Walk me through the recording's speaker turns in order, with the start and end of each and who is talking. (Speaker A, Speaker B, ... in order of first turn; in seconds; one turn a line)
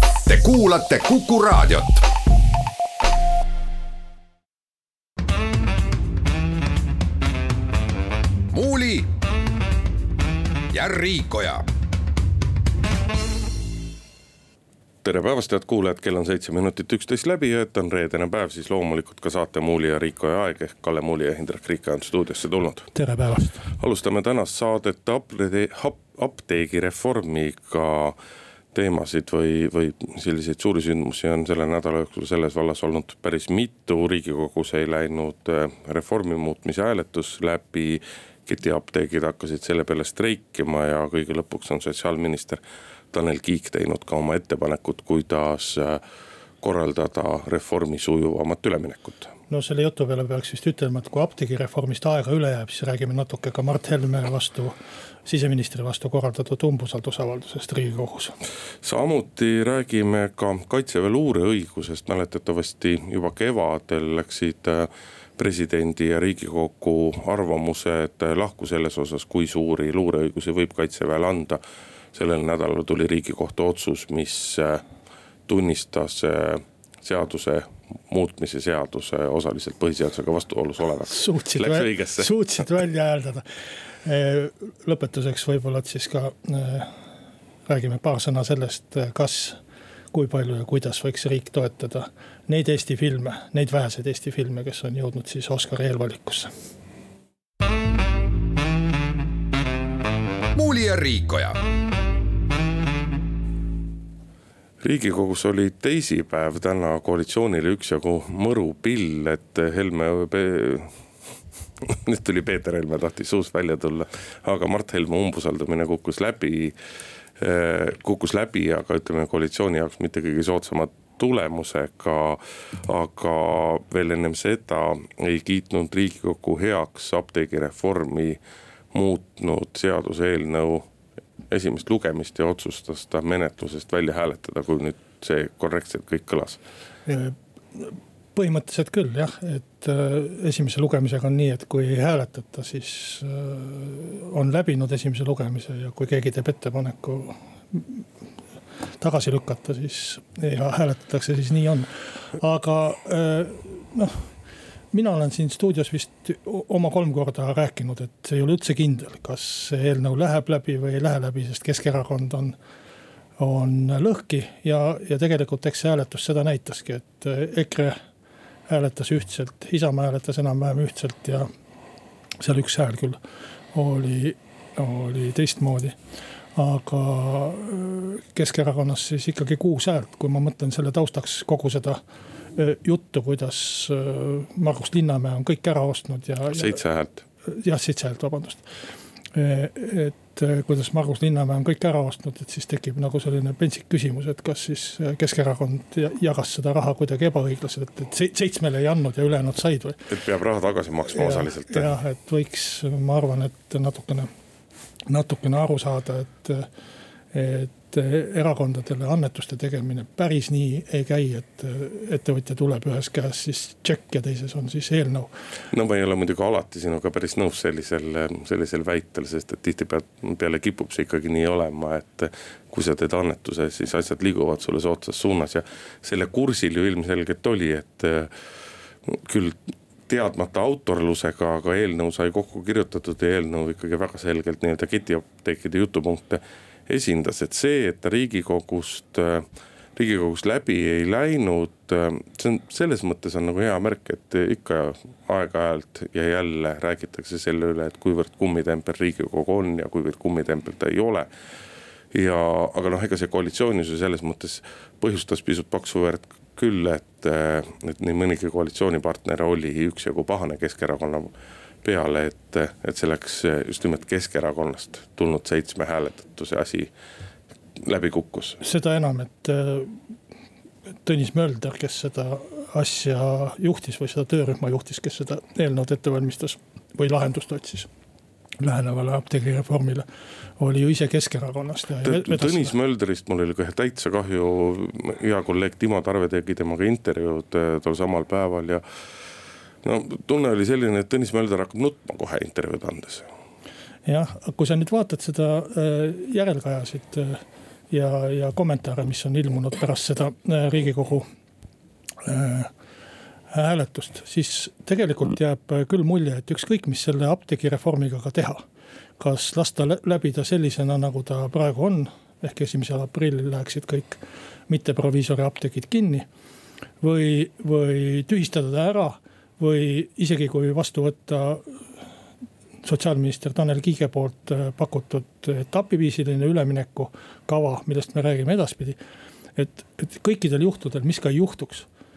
Speaker A: 0.2-2.0
Speaker A: 8.5-9.1
Speaker A: 10.7-11.6
Speaker B: 15.0-22.9
Speaker C: 22.9-23.6
Speaker B: 23.8-28.2
Speaker B: 28.7-42.6
Speaker B: 43.1-46.0
Speaker B: 46.6-49.3
Speaker C: 49.5-58.3
Speaker B: 58.8-71.6
Speaker B: 72.1-74.8
Speaker B: 75.5-82.3
Speaker C: 81.1-83.5
Speaker C: 84.0-86.9
Speaker C: 87.7-89.6
Speaker C: 90.1-96.5
Speaker A: 100.5-101.6
Speaker B: 104.8-110.9
Speaker B: 111.8-116.8
Speaker B: 117.4-128.4
Speaker B: 128.9-130.9
Speaker B: 131.5-136.6
Speaker C: 137.1-148.0
Speaker C: 149.0-154.3
Speaker C: 154.9-162.6
Speaker C: 163.4-168.0
Speaker C: 168.7-171.5
Speaker C: 172.4-173.2
Speaker C: 173.7-176.0
Speaker C: 176.5-182.0
Speaker C: 182.6-186.8
Speaker B: 186.5-187.2
Speaker C: 187.4-188.7
Speaker C: 189.3-200.1
Speaker B: 200.1-202.0
Speaker C: 201.1-204.3
Speaker C: 205.1-206.7
Speaker C: 207.3-215.3
Speaker B: 215.7-228.3
Speaker B: 229.1-251.3
Speaker B: 252.1-261.3
Speaker B: 261.8-266.9
Speaker B: 267.8-268.6
Speaker C: 268.6-270.0
Speaker C: 271.0-277.9
Speaker C: 278.6-280.1
Speaker C: 280.6-282.7
Speaker B: 282.0-288.8
Speaker B: 289.8-293.3
Speaker C: 294.1-301.3
Speaker C: 302.2-302.7
Speaker C: 303.5-308.6
Speaker C: 309.2-316.2
Speaker C: 317.0-321.8
Speaker C: 322.8-329.0
Speaker C: 329.6-331.9